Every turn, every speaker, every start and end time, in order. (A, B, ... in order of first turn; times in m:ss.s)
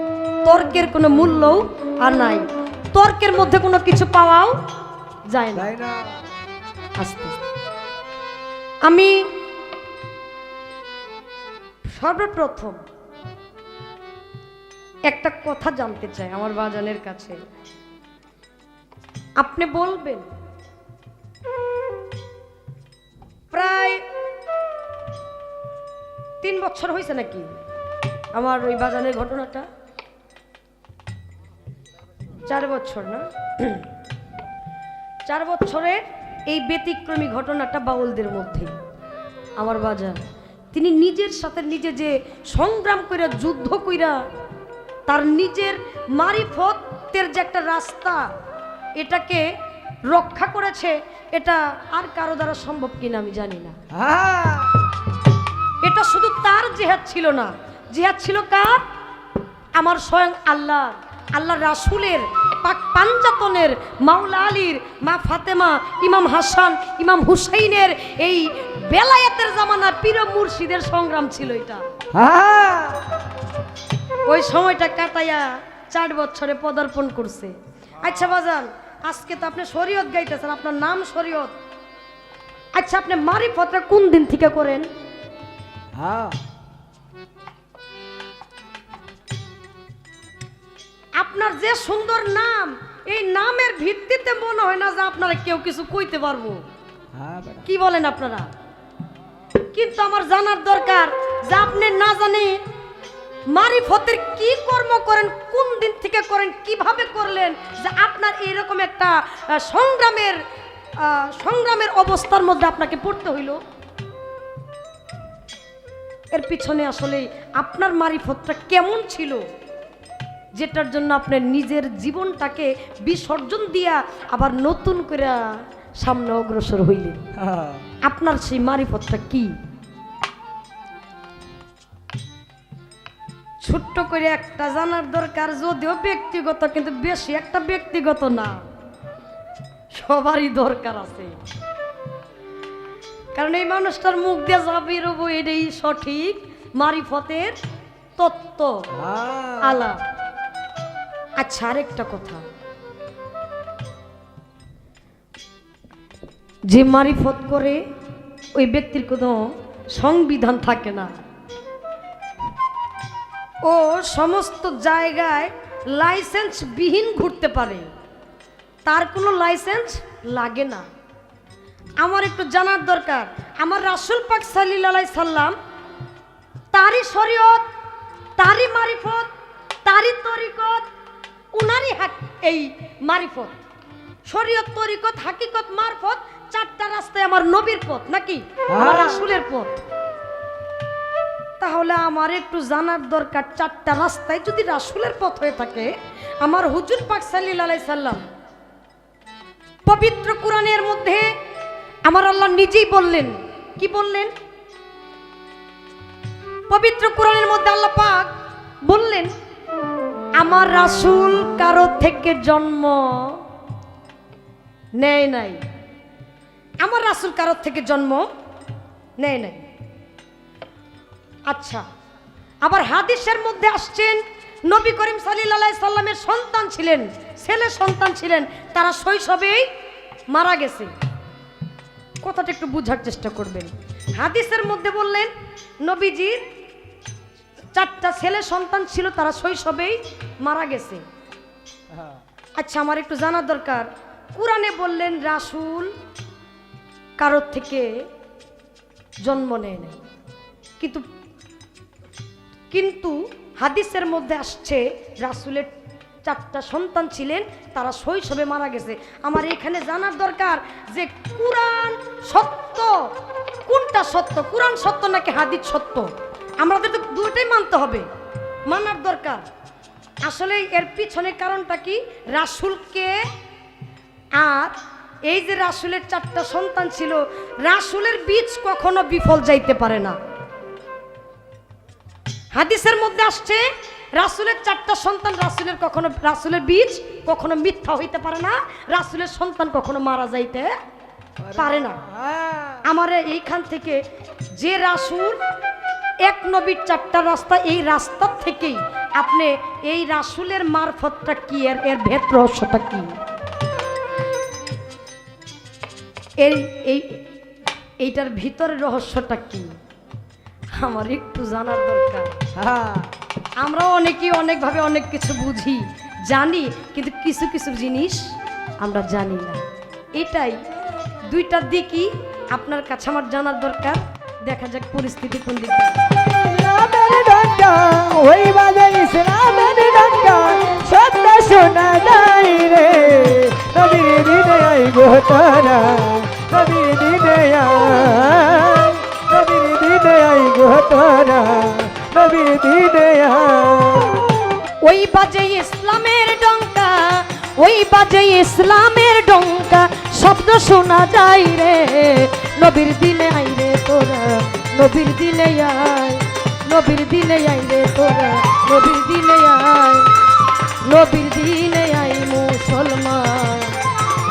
0:00.4-0:04.6 A
0:05.3-0:05.7 A
0:05.6-0:06.2 B
0:07.0-0:07.4 A
0:08.8-0:09.3 A
0:11.9-0:12.8 A
0:15.1-0:17.4 A
0:19.4-0:20.2 A
0:23.5-0:24.0 A
0:26.4-0:27.5 A
0:28.4-0:29.6 A
0:32.5-0:33.9 A
0:35.2-0:38.7 A
0:39.6-0:40.2 A
0:40.7-0:44.2 A
0:45.1-0:48.3 A
0:49.0-0:49.5 A
0:50.1-0:53.8 A
0:53.9-0:54.8 B
0:55.8-0:58.8 A
0:59.8-1:11.8 A
1:12.1-1:13.0 B
1:14.2-1:21.5 A
1:22.8-1:24.9 A
1:26.0-1:26.4 B
1:31.2-1:36.6 A
1:37.1-1:37.7 B
1:37.6-1:38.5 A
1:39.7-1:42.6 A
1:43.5-1:50.4 A
1:51.0-1:53.6 A
1:56.3-1:59.4 A
2:00.6-2:07.2 A
2:07.4-2:07.8 B
2:08.0-2:09.5 A
2:13.6-2:18.6 A
2:19.9-2:21.3 A
2:23.3-2:27.6 A
2:28.2-2:28.9 A
2:28.9-2:29.8 B
2:29.6-2:30.0 A
2:31.4-2:32.4 A
2:36.7-2:37.8 A
2:38.6-2:41.1 A
2:43.6-2:47.9 A
2:48.8-2:50.8 A
2:52.0-2:55.6 A
2:56.7-2:57.7 A
2:58.4-2:59.3 A
2:59.8-3:00.8 A
3:01.5-3:03.6 A
3:04.3-3:09.8 A
3:08.7-3:09.3 B
3:11.6-3:15.9 A
3:16.4-3:18.2 A
3:19.8-3:21.3 A
3:22.1-3:24.3 A
3:26.7-3:28.3 A
3:28.8-3:29.3 A
3:30.4-3:33.4 A
3:35.0-3:35.6 A
3:36.8-3:38.3 A
3:39.2-3:39.6 A
3:41.5-3:41.8 A
3:42.6-3:49.7 A
3:50.3-3:50.9 A
3:52.2-3:55.3 A
3:55.8-3:56.4 A
3:57.7-4:01.0 A
4:02.6-4:05.9 A
4:07.2-4:07.9 A
4:09.2-4:10.0 A
4:10.8-4:11.1 A
4:12.7-4:15.7 A
4:16.2-4:23.1 A
4:23.7-4:28.1 A
4:28.7-4:29.4 A
4:30.2-4:33.2 A
4:34.4-4:34.8 A
4:35.3-4:40.2 A
4:42.5-4:43.6 A
4:44.2-4:50.7 A
4:51.4-4:52.8 B
4:51.6-4:52.0 A
4:52.8-4:54.0 A
4:54.6-4:55.4 A
4:56.2-5:03.1 A
5:06.4-5:07.2 A
5:08.0-5:09.7 A
5:10.8-5:12.3 A
5:12.6-5:13.1 B
5:13.6-5:18.3 A
5:18.8-5:19.6 A
5:20.2-5:20.6 A
5:21.3-5:26.1 A
5:26.3-5:44.3 B
5:44.8-6:00.1 A
6:00.8-6:03.8 A